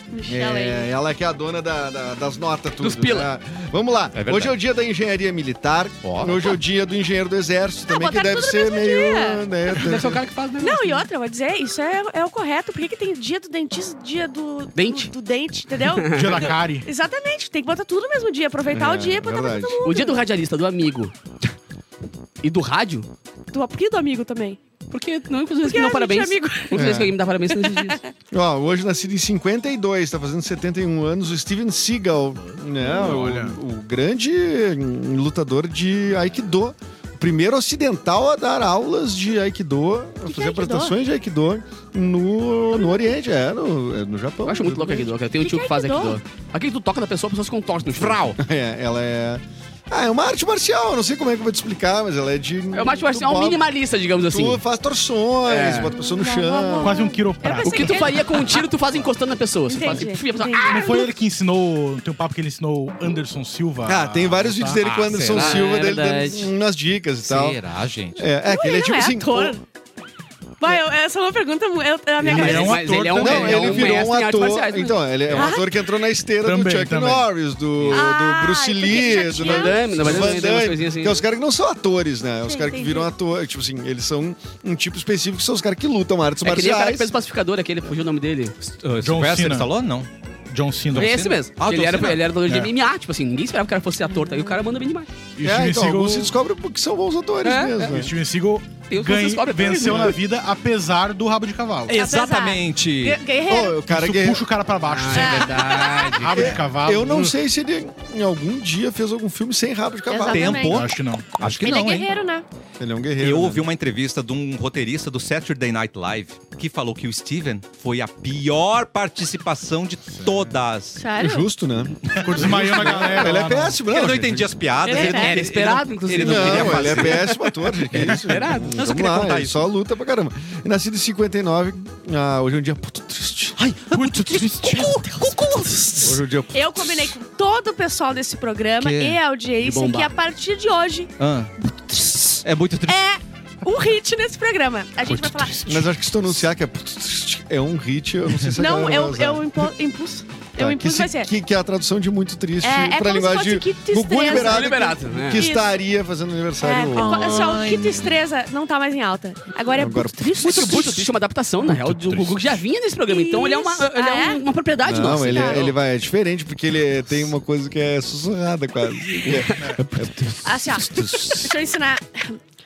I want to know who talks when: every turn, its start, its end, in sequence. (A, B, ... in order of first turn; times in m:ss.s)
0:00.1-0:00.9 A
0:00.3-0:10.2 B
0:02.8-0:03.3 C
0:04.1-0:04.6 D
0:06.0-0:06.5 D
0:07.9-0:09.4 A
0:09.7-0:11.1 C
0:10.6-0:20.2 A
0:14.8-0:15.1 C
0:15.8-0:16.5 C
0:16.1-0:16.9 E
0:18.7-0:19.9 B
0:19.8-0:21.1 C
0:22.4-0:23.1 C
0:23.5-0:24.6 A
0:24.9-0:28.0 C
0:25.6-0:26.9 A
0:26.7-0:27.2 B
0:27.5-0:28.1 A
0:28.3-0:45.1 B
0:32.8-0:33.6 E
0:40.3-0:41.0 A
0:44.4-0:48.2 C
0:45.4-0:46.2 A
0:47.9-0:48.4 D
0:48.4-0:53.6 B
0:52.7-0:54.6 C
0:54.3-0:57.1 B
0:55.4-0:55.9 C
0:56.0-0:58.7 A
0:56.8-0:58.2 E
0:57.6-1:01.0 C
0:59.7-1:01.1 A
1:00.7-1:04.8 E
1:03.8-1:07.6 B
1:04.8-1:05.7 D
1:05.2-1:06.5 C
1:07.2-1:08.2 D
1:08.1-1:09.6 B
1:08.5-1:09.6 A
1:10.6-1:12.9 A
1:12.2-1:15.6 C
1:12.2-1:14.0 E
1:13.2-1:27.1 B
1:15.4-1:15.7 A
1:16.4-1:17.3 E
1:17.8-1:18.0 C
1:17.9-1:20.4 A
1:18.9-1:21.2 C
1:22.4-1:23.1 A
1:26.4-1:28.6 C
1:28.8-1:30.1 D
1:29.0-1:29.7 E
1:30.5-1:31.2 E
1:30.9-1:32.3 D
1:30.9-1:35.1 C
1:32.5-1:32.7 E
1:35.4-1:36.3 E
1:35.4-1:38.1 B
1:37.4-1:38.0 C
1:37.8-1:42.0 E
1:38.9-1:40.2 C
1:39.8-1:40.2 B
1:41.9-1:43.2 D
1:42.0-1:43.8 A
1:43.5-1:44.5 B
1:43.9-1:47.4 E
1:44.9-1:46.6 C
1:45.2-1:46.2 A
1:46.3-1:50.7 B
1:50.1-1:50.9 A
1:50.3-1:52.1 D
1:50.6-1:51.4 E
1:51.4-1:52.4 A
1:52.8-1:53.7 B
1:53.2-2:01.0 D
2:01.0-2:01.5 A
2:01.2-2:04.6 B
2:02.1-2:03.3 D
2:02.2-2:03.8 E
2:03.9-2:07.4 D
2:04.8-2:05.4 A
2:04.9-2:07.4 C
2:06.2-2:13.6 B
2:07.9-2:08.8 C
2:08.7-2:09.6 D
2:13.6-2:15.6 D
2:13.9-2:15.0 E
2:14.4-2:25.6 A
2:16.0-2:17.2 B
2:18.8-2:19.2 D
2:19.6-2:20.1 C
2:21.2-2:21.6 D
2:22.4-2:23.0 D
2:25.1-2:25.9 E
2:25.6-2:29.7 B
2:28.6-2:31.3 A
2:30.6-2:37.5 B
2:32.6-2:35.7 A
2:34.2-2:35.5 C
2:36.6-2:40.9 A
2:37.0-2:38.1 D
2:39.7-2:40.7 B
2:40.4-2:45.7 C
2:41.7-2:42.4 E
2:43.1-2:44.4 A
2:44.8-2:50.1 B
2:45.1-2:45.7 A
2:49.2-2:51.5 C
2:50.4-2:52.4 A